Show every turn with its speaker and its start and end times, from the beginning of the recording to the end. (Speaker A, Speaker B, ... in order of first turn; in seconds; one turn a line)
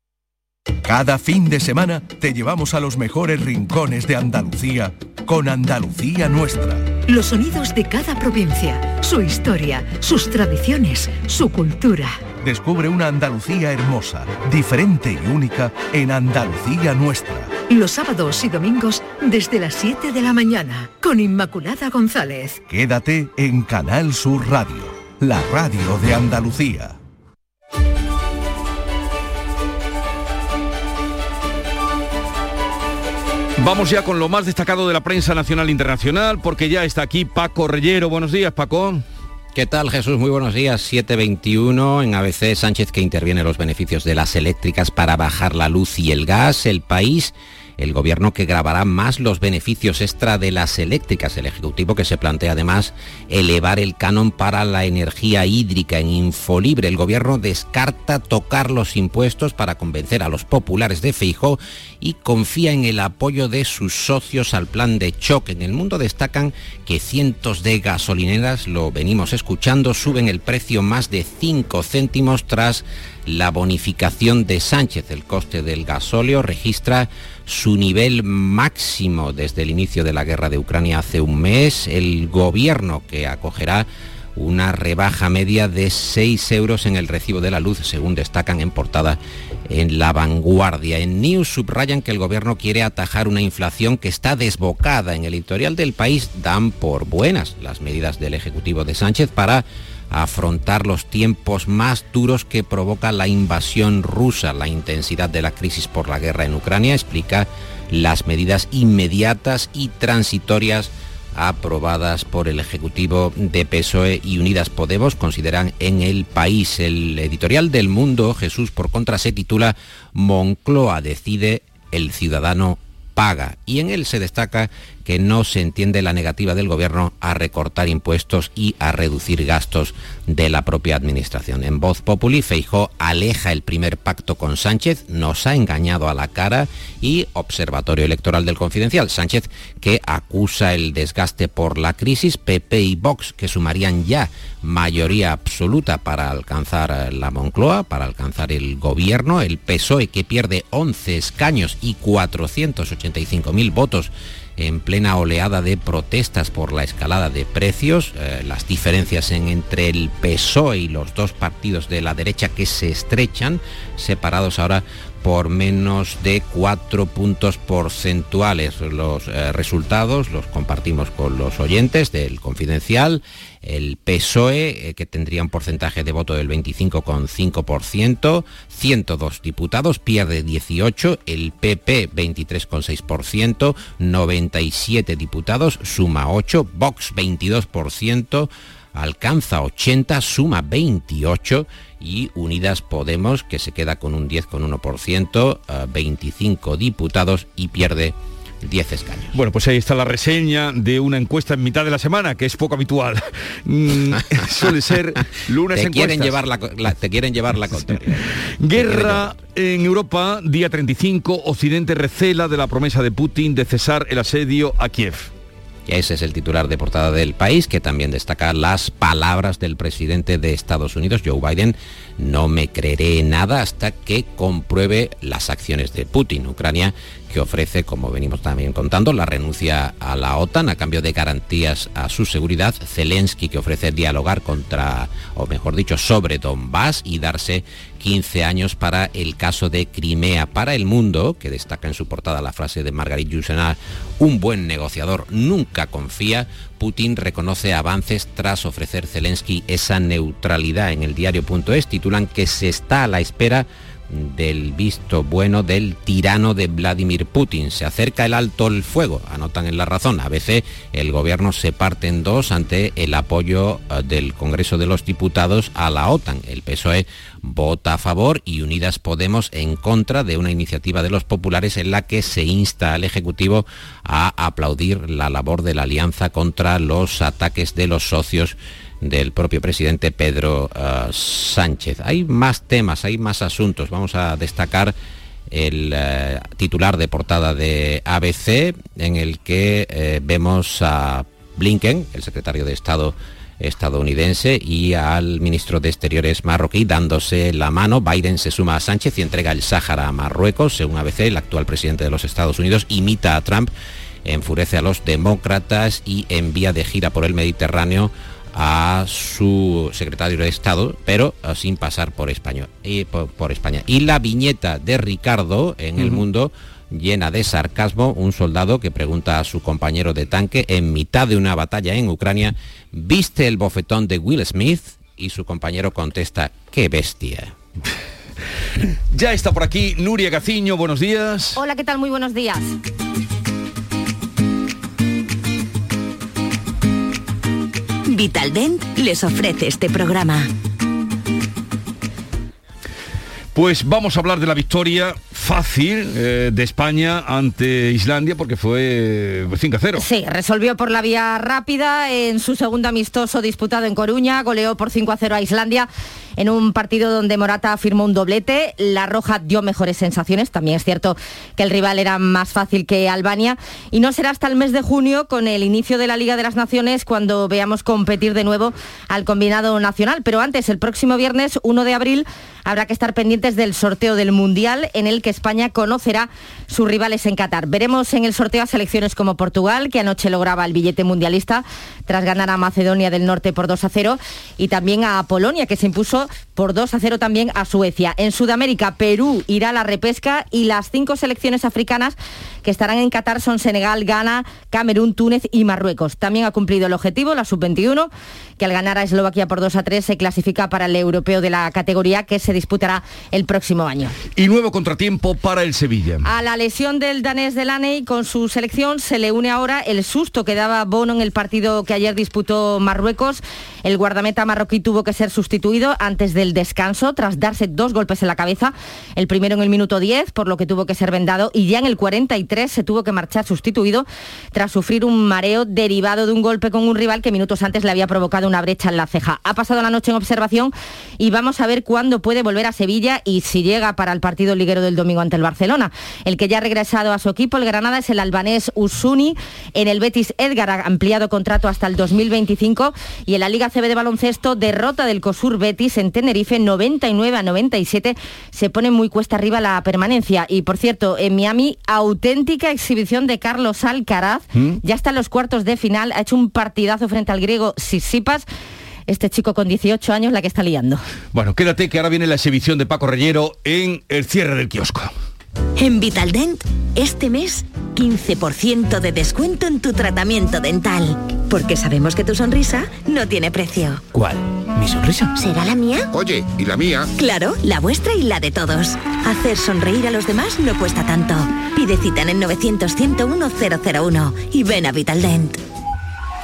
Speaker A: 0.8-6.9
Speaker B: 7.1-12.2
Speaker A: 12.4-17.6
Speaker B: 17.7-22.6
Speaker A: 22.7-27.0
Speaker C: 33.6-39.0
Speaker D: 39.5-199.3
Speaker C: 199.3-206.4
Speaker D: 205.7-209.4
Speaker C: 208.6-215.3
Speaker D: 215.9-284.9
Speaker D: 285.5-303.7
Speaker D: 304.2-327.5
Speaker C: 329.1-331.6
Speaker E: 331.5-332.7
Speaker F: 338.1-340.5
Speaker C: 343.5-350.0
Speaker E: 349.9-404.1
Speaker C: 404.4-406.2
Speaker E: 406.2-458.4
Speaker E: 459.1-461.0
Speaker C: 461.3-465.1
Speaker F: 465.8-474.0
Speaker G: 474.1-475.3
Speaker F: 475.3-476.1
Speaker G: 476.1-477.1
Speaker F: 477.2-485.6